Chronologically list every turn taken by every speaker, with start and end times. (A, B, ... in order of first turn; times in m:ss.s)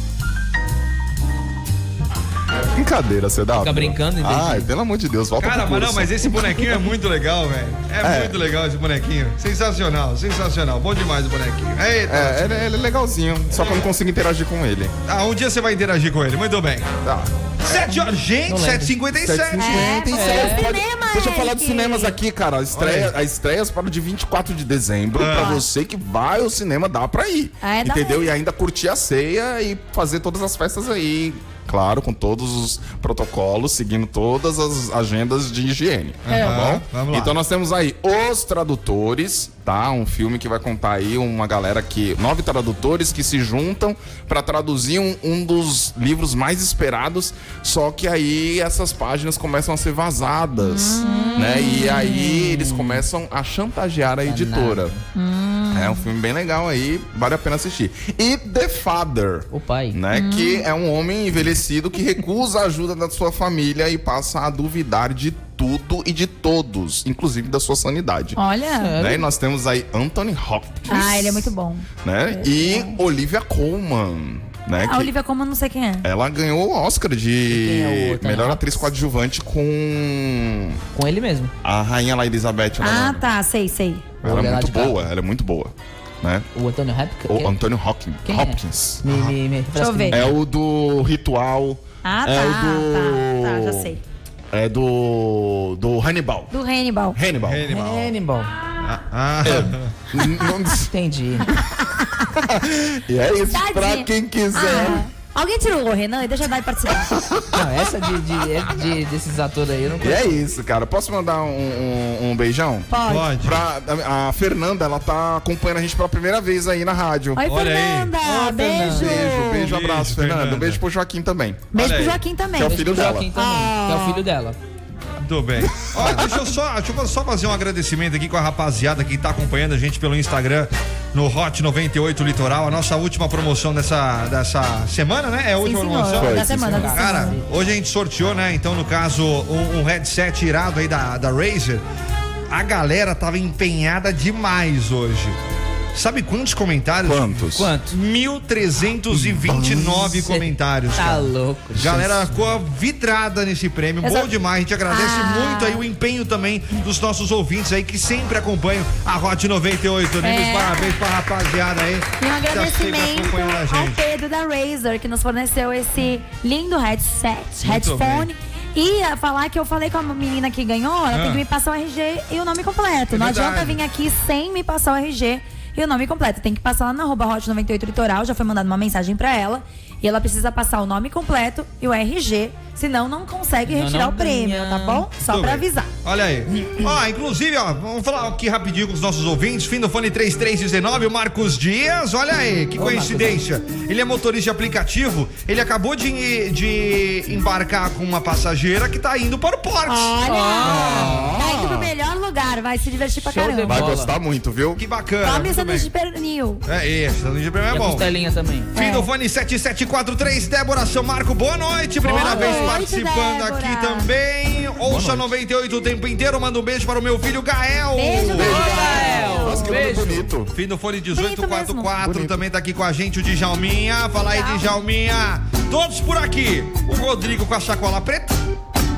0:02.7-0:07.0 A
0:03.6-0:04.7 B
0:05.4-0:12.7 C
0:08.0-0:08.4 A
0:12.1-0:14.9 A
0:13.5-0:13.8 C
0:15.1-0:16.9 C
0:17.0-0:17.3 A
0:17.6-0:20.0 C
0:18.4-0:18.9 B
0:19.2-0:54.9 A
0:19.6-0:22.2 D
0:20.1-0:20.6 B
0:22.7-0:23.1 C
0:25.2-0:25.6 C
0:25.4-0:25.6 D
0:27.6-0:28.3 D
0:36.3-0:36.7 D
0:36.3-0:37.4 C
0:50.6-0:52.3 D
0:52.3-0:53.0 B
0:54.2-0:55.0 B
0:55.1-0:56.1 D
0:55.7-1:08.4 A
0:59.5-1:00.0 B
1:00.1-1:00.7 D
1:08.4-1:08.9 D
1:08.8-1:09.3 B
1:09.0-1:15.1 A
1:10.9-1:12.8 D
1:14.8-1:16.1 D
1:16.0-1:20.8 A
1:17.5-1:18.9 B
1:20.9-1:21.5 B
1:21.6-1:23.2 A
1:22.8-1:24.1 D
1:24.2-1:25.0 B
1:24.2-1:26.5 A
1:26.5-1:27.5 B
1:27.3-1:29.0 A
1:28.2-1:30.4 B
1:29.1-1:29.4 C
1:29.8-1:30.2 D
1:30.1-1:33.9 A
1:32.0-1:34.0 D
1:34.5-1:36.5 A
1:36.5-1:37.2 D
1:37.1-1:37.7 A
1:37.4-1:38.1 C
1:37.7-1:38.5 B
1:38.8-1:39.9 C
1:39.4-1:40.9 A
1:40.9-1:41.5 B
1:41.8-1:42.4 D
1:42.4-1:45.0 A
1:43.5-1:47.2 D
1:47.1-1:47.9 A
1:47.5-1:50.4 B
1:50.0-1:57.5 A
1:52.9-1:53.3 D
1:53.1-1:53.6 C
1:57.4-1:59.5 D
1:57.4-2:00.8 C
1:58.2-1:58.9 B
1:58.8-2:01.7 A
2:01.7-2:02.8 D
2:01.7-2:02.2 C
2:02.5-2:03.3 A
2:02.6-2:04.6 B
2:03.4-2:04.2 D
2:05.2-2:21.8 C
2:05.6-2:06.5 A
2:15.6-2:17.4 D
2:16.1-2:17.0 A
2:16.5-2:17.5 B
2:22.5-2:25.4 C
2:25.9-2:27.4 C
2:27.0-2:27.7 A
2:27.5-2:27.9 B
2:27.9-2:44.0 C
2:29.1-2:30.3 A
2:30.2-2:32.3 B
2:34.0-2:34.3 D
2:34.9-2:35.8 D
2:40.2-2:41.0 D
2:42.2-3:05.9 D
2:47.6-2:48.3 C
2:51.1-2:51.4 C
2:53.1-2:53.8 C
3:03.7-3:05.1 B
3:05.2-3:21.4 C
3:06.6-3:06.9 B
3:12.8-3:13.4 B
3:19.8-3:23.8 D
3:20.3-3:21.3 B
3:20.6-3:21.9 A
3:23.2-3:24.1 B
3:23.7-3:24.8 A
3:24.8-3:25.9 C
3:25.2-3:26.6 D
3:26.6-3:28.0 C
3:27.7-3:28.7 B
3:28.8-3:29.1 D
3:28.8-3:38.6 C
3:32.0-3:32.8 B
3:32.0-3:34.1 D
3:34.8-3:35.4 A
3:37.9-3:39.8 D
3:38.3-3:40.5 A
3:38.4-3:40.3 B
3:40.5-3:48.4 C
3:41.1-3:41.9 D
3:42.0-3:42.4 A
3:44.2-3:44.7 D